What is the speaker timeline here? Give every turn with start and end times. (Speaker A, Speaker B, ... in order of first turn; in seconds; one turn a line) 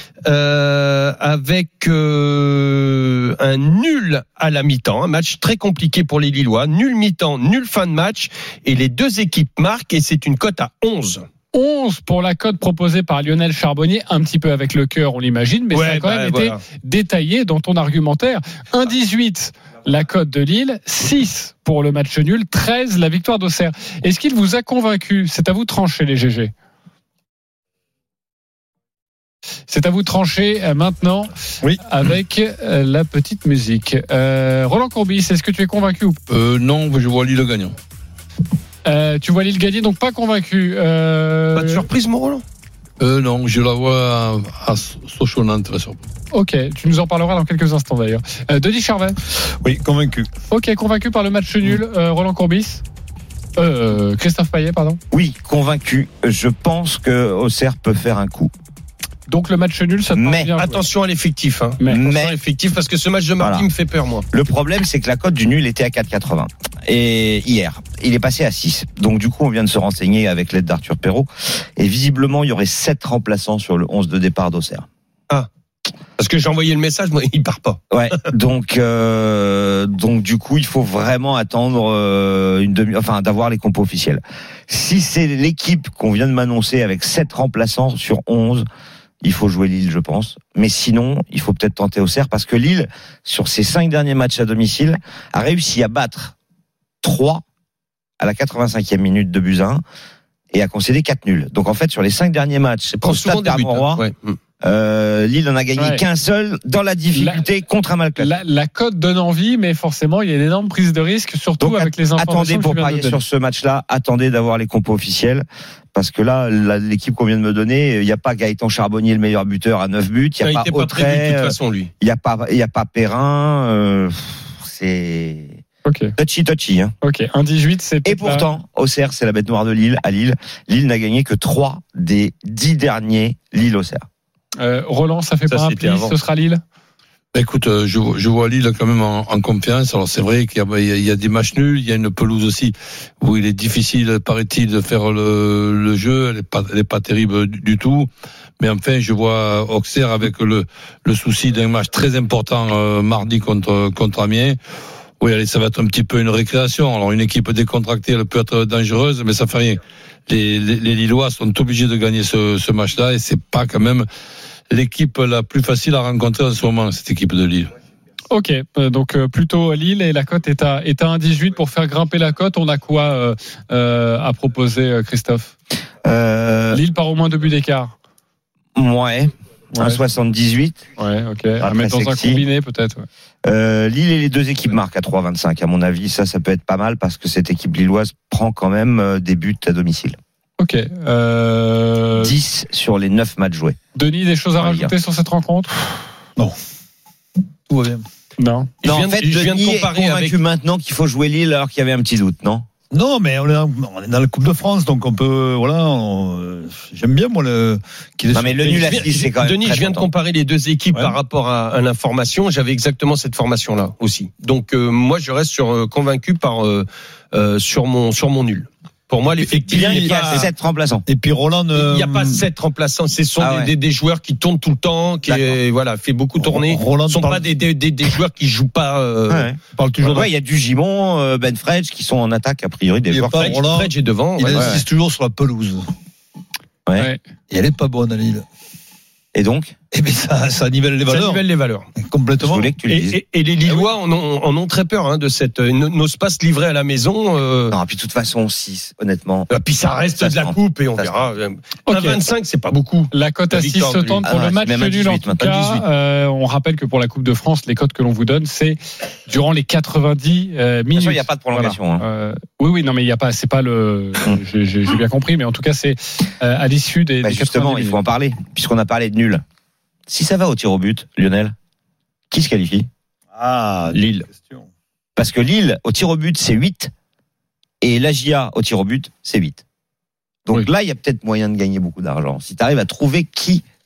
Speaker A: 0.2-11.2
Speaker B: 11.5-26.5
Speaker A: 15.7-16.6
Speaker B: 29.7-36.2
Speaker C: 36.3-37.7
Speaker B: 38.9-41.9
Speaker A: 41.5-42.4
Speaker C: 43.0-46.0
Speaker B: 46.3-49.2
Speaker D: 49.6-50.3
Speaker B: 50.5-52.8
Speaker B: 53.6-55.0
Speaker E: 55.1-58.5
Speaker B: 59.3-60.8
Speaker E: 60.1-60.5
Speaker A: 60.6-64.2
Speaker E: 61.9-62.4
Speaker E: 63.4-63.7
Speaker E: 64.3-74.9
Speaker A: 76.2-77.8
Speaker E: 77.9-88.7
Speaker E: 89.2-96.3
Speaker E: 97.0-97.4
Speaker E: 98.2-99.8
Speaker E: 100.5-104.0
Speaker A: 103.0-104.4
Speaker E: 104.6-108.4
Speaker B: 105.8-106.0
Speaker B: 107.1-107.4
Speaker B: 108.2-113.2
Speaker E: 111.6-125.6
Speaker A: 120.4-121.9
Speaker B: 125.8-126.1
Speaker E: 126.2-126.9
Speaker B: 127.0-128.5
Speaker E: 128.1-134.1
Speaker B: 134.6-136.6
Speaker A: 135.5-136.1
Speaker C: 137.3-154.6
Speaker C: 155.2-164.1
Speaker C: 164.7-167.7
Speaker B: 168.3-175.5
Speaker E: 176.0-176.8
Speaker B: 176.7-177.9
Speaker E: 178.7-180.8
Speaker B: 179.7-180.0
Speaker B: 181.0-183.1
Speaker E: 181.6-182.4
Speaker E: 183.4-190.2
Speaker B: 190.6-192.4
Speaker E: 192.2-193.8
Speaker B: 193.9-195.8
Speaker E: 194.6-194.9
Speaker D: 197.7-198.0
Speaker B: 198.4-198.7
Speaker A: 198.8-200.4
Speaker E: 198.8-202.7
Speaker D: 202.9-209.2
Speaker E: 208.3-210.1
Speaker A: 208.8-220.5
Speaker D: 219.4-220.5
Speaker E: 219.7-221.0
Speaker D: 221.1-222.5
Speaker A: 221.7-229.6
Speaker E: 223.4-223.7
Speaker E: 225.2-225.6
Speaker D: 226.4-227.5
Speaker E: 229.3-233.6
Speaker D: 229.7-230.3
Speaker D: 233.1-235.9
Speaker A: 233.4-234.8
Speaker E: 234.4-234.8
Speaker D: 237.5-238.4
Speaker E: 239.3-239.7
Speaker D: 239.9-241.4
Speaker A: 241.1-241.9
Speaker D: 241.9-242.7
Speaker E: 242.4-243.9
Speaker A: 242.9-247.7
Speaker E: 247.7-249.5
Speaker A: 249.5-254.2
Speaker E: 250.2-251.2
Speaker B: 251.9-252.2
Speaker B: 253.1-268.0
Speaker E: 254.2-255.8
Speaker A: 255.4-255.8
Speaker E: 260.9-262.0
Speaker E: 267.2-269.4
Speaker E: 270.1-271.6
Speaker E: 272.3-272.9
Speaker D: 273.3-274.7
Speaker A: 273.9-274.3
Speaker E: 275.1-276.9
Speaker E: 277.8-279.6
Speaker E: 280.4-283.6